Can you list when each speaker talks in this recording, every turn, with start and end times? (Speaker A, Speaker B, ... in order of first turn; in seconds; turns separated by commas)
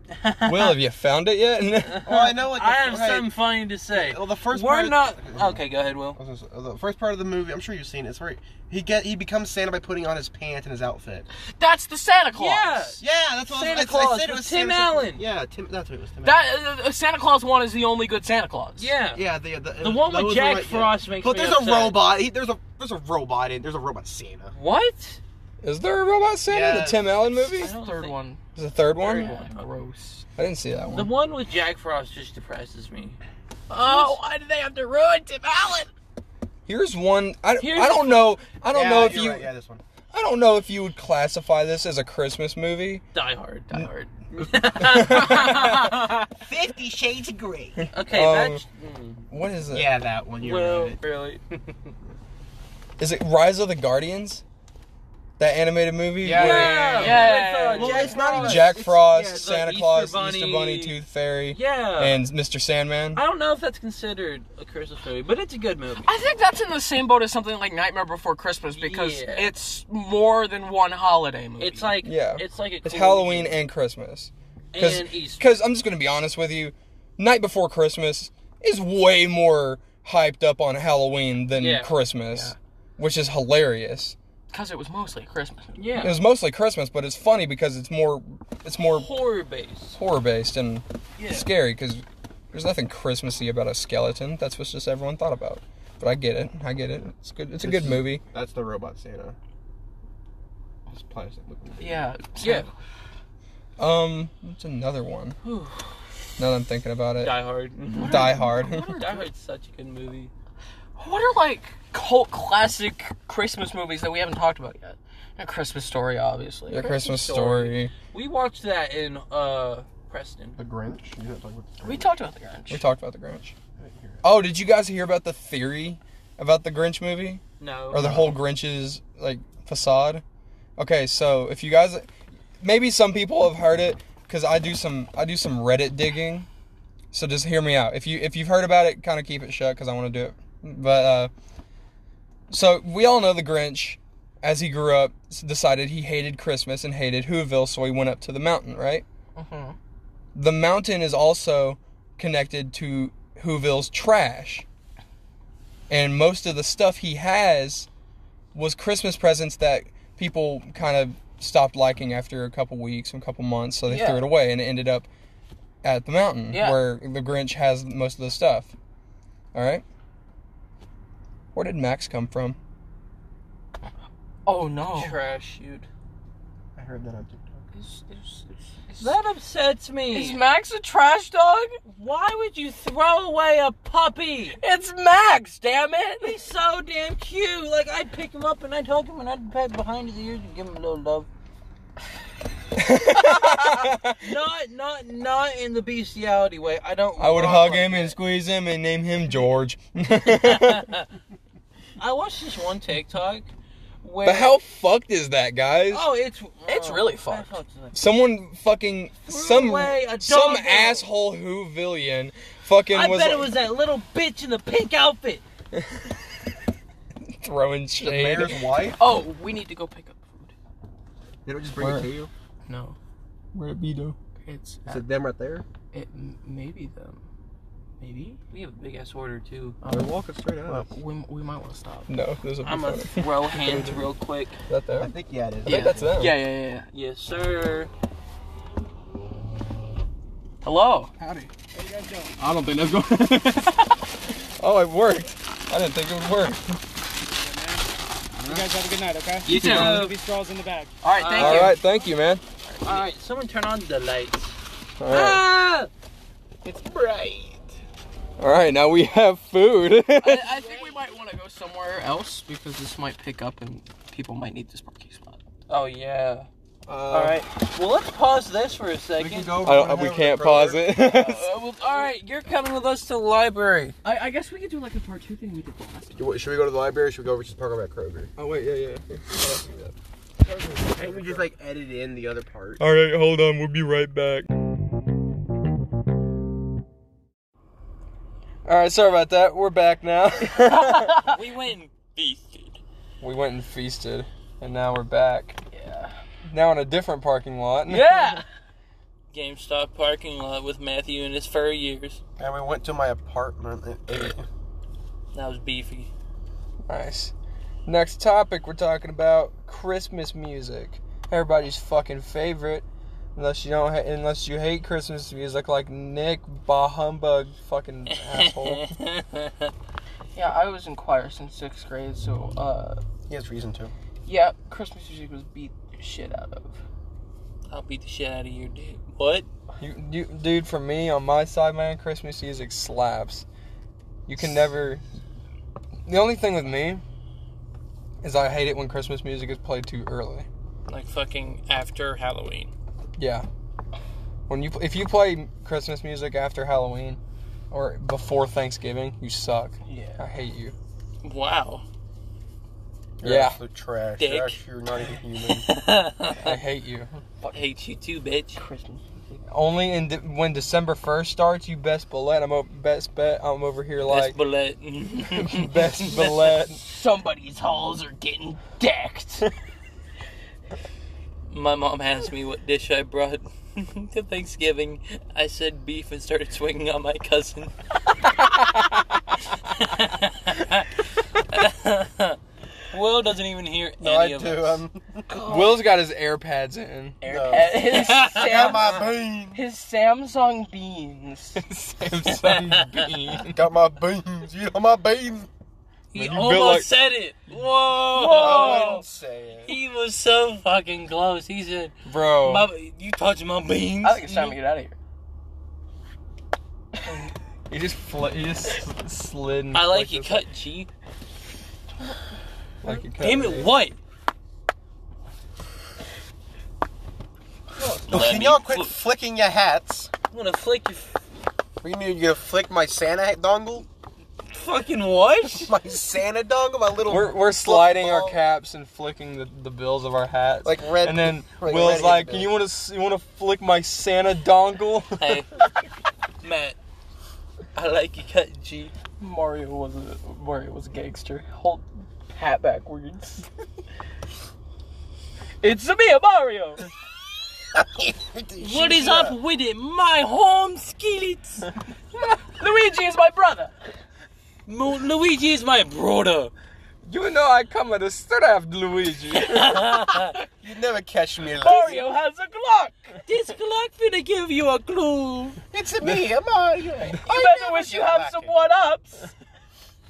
Speaker A: 0.1-0.8, Speaker B: 0.4-2.1, Speaker A: 1.8-6.2, Speaker C: 2.0-3.4, Speaker C: 3.9-11.3, Speaker D: 11.6-12.9, Speaker A: 12.3-15.2, Speaker C: 13.0-16.4, Speaker D: 16.2-18.9, Speaker A: 18.8-19.2, Speaker C: 19.1-24.5, Speaker A: 19.8-22.0, Speaker A: 24.5-25.2, Speaker B: 25.6-27.7, Speaker C: 26.4-27.1, Speaker D: 27.5-28.4, Speaker A: 27.5-28.2, Speaker B: 28.5-29.3, Speaker A: 29.0-29.8, Speaker D: 29.1-30.2, Speaker B: 30.4-31.1, Speaker A: 30.9-33.2, Speaker D: 33.7-35.9, Speaker A: 33.7-34.2, Speaker B: 36.7-39.5, Speaker A: 37.6-38.4, Speaker C: 38.7-39.8, Speaker B: 40.1-43.0, Speaker A: 43.1-46.2, Speaker D: 43.7-44.1, Speaker B: 44.8-45.9, Speaker C: 46.4-47.9, Speaker A: 47.9-49.3, Speaker B: 48.0-48.6, Speaker B: 49.3-49.9, Speaker C: 49.7-51.0, Speaker A: 50.4-51.9, Speaker B: 53.0-54.4, Speaker B: 55.4-57.2, Speaker C: 56.2-58.9, Speaker A: 56.3-61.0, Speaker D: 57.0-58.3, Speaker B: 58.0-63.2, Speaker A: 61.5-62.2, Speaker A: 63.1-66.2, Speaker D: 66.0-72.0, Speaker A: 68.7-69.5, Speaker A: 71.6-73.6, Speaker B: 72.0-84.2, Speaker A: 74.7-75.5, Speaker A: 81.5-81.9, Speaker D: 84.5-85.9, Speaker A: 85.8-86.2, Speaker B: 86.0-89.1, Speaker A: 88.8-90.0, Speaker B: 90.0-98.2, Speaker A: 91.2-91.5, Speaker C: 97.6-99.4, Speaker C: 100.9-102.1, Speaker D: 101.8-102.7, Speaker A: 102.4-102.7, Speaker B: 103.8-105.4, Speaker A: 105.5-105.7, Speaker B: 106.4-107.3, Speaker A: 107.2-110.3, Speaker D: 108.0-109.3, Speaker B: 108.0-109.0, Speaker D: 111.0-116.9, Speaker B: 116.7-117.9, Speaker A: 116.7-120.6, Speaker C: 120.6-122.1, Speaker D: 121.8-122.8, Speaker B: 122.7-123.5, Speaker C: 123.8-124.2, Speaker B: 124.2-130.2, Speaker A: 127.6-128.1, Speaker C: 128.0-128.3, Speaker B: 130.8-136.5, Speaker B: 137.1-141.3, Speaker B: 142.5-149.0, Speaker D: 149.4-149.8, Speaker B: 150.3-154.7, Speaker B: 155.9-157.9, Speaker B: 158.5-165.1, Speaker D: 163.9-164.3, Speaker B: 165.8-168.7, Speaker D: 166.5-166.8, Speaker B: 169.5-169.8, Speaker B: 171.5-172.6, Speaker D: 174.4-175.2, Speaker A: 174.9-175.9, Speaker C: 176.8-177.6, Speaker D: 177.7-179.2, Speaker A: 179.0-180.4, Speaker D: 180.1-181.8, Speaker A: 181.8-184.6, Speaker D: 184.6-186.4, Speaker A: 186.2-191.3, Speaker B: 192.8-194.3, Speaker A: 194.2-198.2, Speaker B: 197.2-200.9, Speaker A: 200.3-201.1, Speaker A: 202.0-203.5, Speaker A: 204.0-204.6, Speaker B: 204.2-206.1, Speaker A: 205.9-208.0, Speaker D: 206.7-207.6, Speaker B: 207.9-213.5, Speaker A: 209.3-211.1, Speaker A: 212.9-215.4, Speaker B: 215.7-216.2, Speaker B: 217.2-218.7, Speaker C: 218.0-219.0, Speaker D: 219.0-220.5, Speaker C: 221.4-222.3, Speaker B: 221.8-222.1, Speaker D: 222.7-223.0, Speaker B: 223.5-224.2, Speaker D: 224.4-225.1, Speaker C: 224.9-225.6, Speaker D: 225.9-227.2, Speaker D: 228.0-228.4, Speaker A: 228.5-229.8, Speaker D: 229.8-230.1, Speaker C: 229.8-230.9, Speaker D: 230.7-232.1, Speaker B: 232.1-234.0, Speaker A: 232.6-234.6, Speaker B: 234.7-235.1, Speaker C: 235.0-236.1, Speaker B: 235.6-236.5, Speaker D: 235.6-236.9, Speaker A: 236.9-237.9, Speaker D: 240.6-241.1, Speaker C: 241.2-241.5, Speaker E: 241.7-242.4, Speaker B: 242.4-243.7, Speaker B: 244.6-246.8, Speaker E: 247.3-247.9, Speaker E: 248.4-250.9, Speaker D: 249.4-250.1, Speaker A: 249.4-250.2, Speaker D: 251.0-251.8, Speaker A: 251.1-251.8, Speaker B: 251.3-252.4, Speaker A: 252.8-254.6, Speaker B: 255.0-255.4, Speaker A: 255.1-255.9, Speaker C: 256.6-257.6, Speaker B: 258.4-260.5, Speaker D: 260.2-265.4, Speaker A: 265.7-266.5, Speaker C: 266.9-267.4, Speaker A: 267.1-269.6, Speaker C: 269.2-270.9, Speaker B: 269.6-271.5, Speaker D: 271.0-272.1, Speaker A: 271.8-273.9, Speaker D: 274.0-276.2, Speaker C: 276.1-278.3, Speaker B: 278.4-279.9, Speaker B: 280.4-281.5, Speaker C: 280.9-282.8, Speaker B: 282.8-284.5, Speaker B: 288.6-291.2, Speaker D: 290.6-291.4, Speaker A: 291.2-292.8, Speaker B: 293.2-295.6, Speaker D: 295.7-296.1, Speaker B: 296.5-298.4, Speaker D: 297.9-298.4, Speaker A: 299.3-302.2, Speaker C: 302.4-304.4, Speaker A: 305.3-306.1, Speaker B: 306.9-307.3, Speaker B: 307.9-318.9, Speaker A: 318.1-319.7, Speaker D: 320.4-323.0, Speaker C: 323.3-323.9, Speaker D: 324.2-326.8, Speaker A: 327.7-329.5, Speaker B: 329.8-333.4, Speaker B: 334.3-335.0, Speaker B: 336.1-337.0, Speaker B: 338.2-340.5, Speaker A: 340.9-342.7, Speaker B: 343.2-343.5, Speaker B: 344.5-347.2, Speaker B: 347.7-350.8, Speaker D: 349.9-350.2, Speaker A: 351.2-351.9, Speaker C: 353.2-355.7, Speaker B: 353.2-353.6, Speaker A: 354.2-354.6, Speaker A: 355.6-356.6, Speaker B: 356.4-357.2, Speaker A: 357.5-358.6, Speaker D: 358.6-359.4, Speaker B: 359.5-364.4, Speaker A: 364.1-366.3, Speaker B: 365.3-366.8, Speaker D: 366.4-369.5, Speaker A: 371.5-377.7, Speaker A: 379.6-382.4, Speaker A: 382.9-384.8, Speaker C: 384.0-385.2, Speaker D: 385.3-385.8, Speaker B: 385.4-387.2, Speaker D: 387.2-391.6, Speaker C: 387.2-389.6, Speaker A: 387.5-388.8, Speaker B: 391.6-393.7, Speaker A: 392.2-393.1, Speaker C: 393.5-395.5, Speaker A: 396.1-399.0, Speaker B: 396.1-396.9, Speaker D: 398.1-399.0, Speaker C: 398.3-399.7, Speaker A: 399.6-404.6, Speaker B: 402.0-402.7, Speaker D: 404.0-404.9, Speaker B: 407.7-410.4, Speaker A: 409.7-410.9, Speaker B: 412.8-413.7, Speaker A: 413.2-414.0, Speaker C: 417.8-420.1, Speaker A: 417.8-418.9, Speaker A: 420.3-421.1, Speaker C: 421.8-423.9, Speaker A: 424.5-425.7, Speaker C: 425.6-428.4, Speaker B: 427.1-435.4, Speaker C: 430.6-432.5, Speaker A: 435.2-435.5, Speaker A: 436.4-436.8, Speaker A: 437.7-438.9, Speaker D: 439.2-443.5, Speaker D: 445.6-446.9, Speaker C: 447.7-449.4, Speaker A: 448.6-451.7, Speaker D: 452.4-453.7, Speaker A: 454.7-456.5, Speaker B: 457.1-459.9, Speaker A: 459.4-460.4, Speaker C: 460.6-462.1, Speaker D: 461.6-463.2, Speaker A: 463.2-465.6, Speaker C: 465.7-468.5, Speaker D: 467.2-469.3